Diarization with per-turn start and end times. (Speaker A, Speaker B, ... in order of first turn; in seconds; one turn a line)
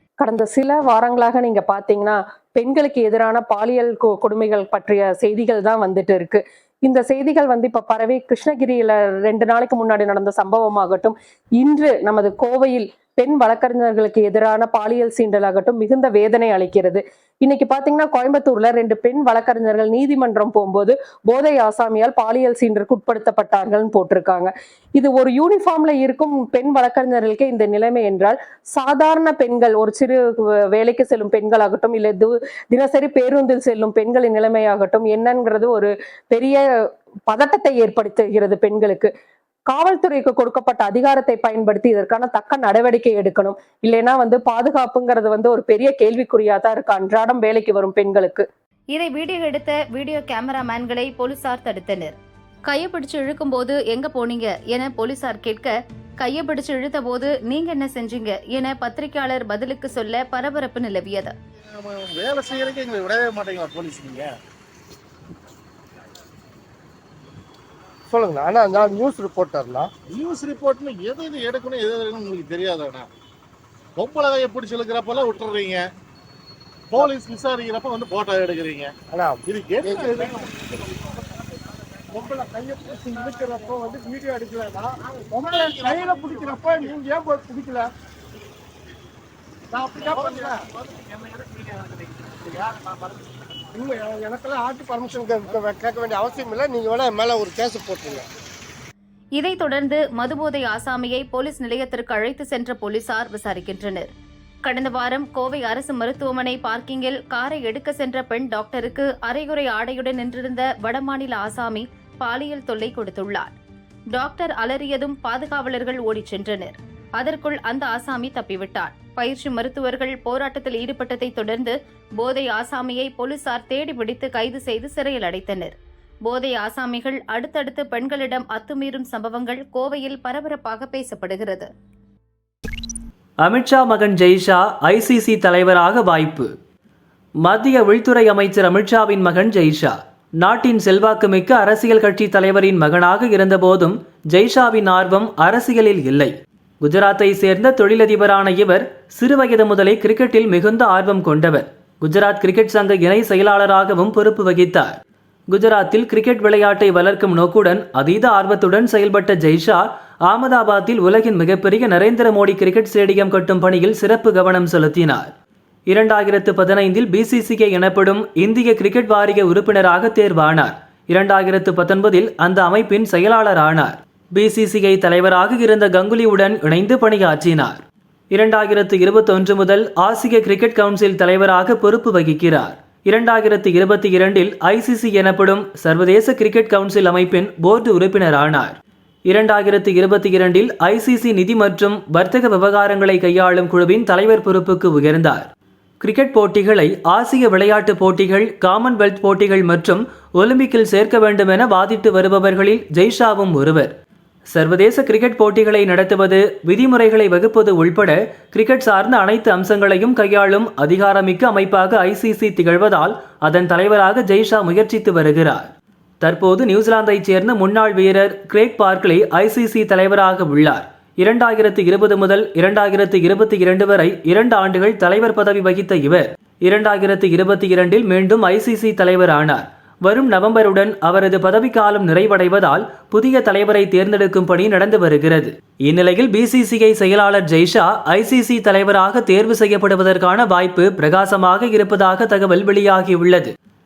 Speaker A: 0.2-36.6
Speaker A: 37.3-39.1
Speaker A: 39.7-48.5
Speaker B: 48.9-52.1
Speaker B: 52.7-61.3
Speaker C: 61.7-64.3
Speaker D: 68.1-69.9
Speaker C: 70.1-73.1
Speaker C: 74.0-75.8
Speaker C: 76.9-80.6
Speaker D: 79.1-81.2
Speaker D: 82.1-87.9
Speaker C: 85.9-86.7
Speaker D: 89.7-90.7
Speaker C: 89.9-90.7
Speaker C: 92.6-92.9
Speaker D: 93.7-98.3
Speaker B: 99.4-104.1
Speaker B: 104.7-113.5
Speaker B: 114.1-125.8
Speaker B: 126.3-131.7
Speaker E: 133.4-136.5
Speaker E: 137.4-155.0
Speaker E: 155.5-165.3
Speaker E: 165.9-177.8
Speaker E: 178.3-188.8
Speaker E: 189.3-195.5
Speaker E: 196.0-203.9
Speaker E: 204.5-215.7
Speaker E: 216.2-243.5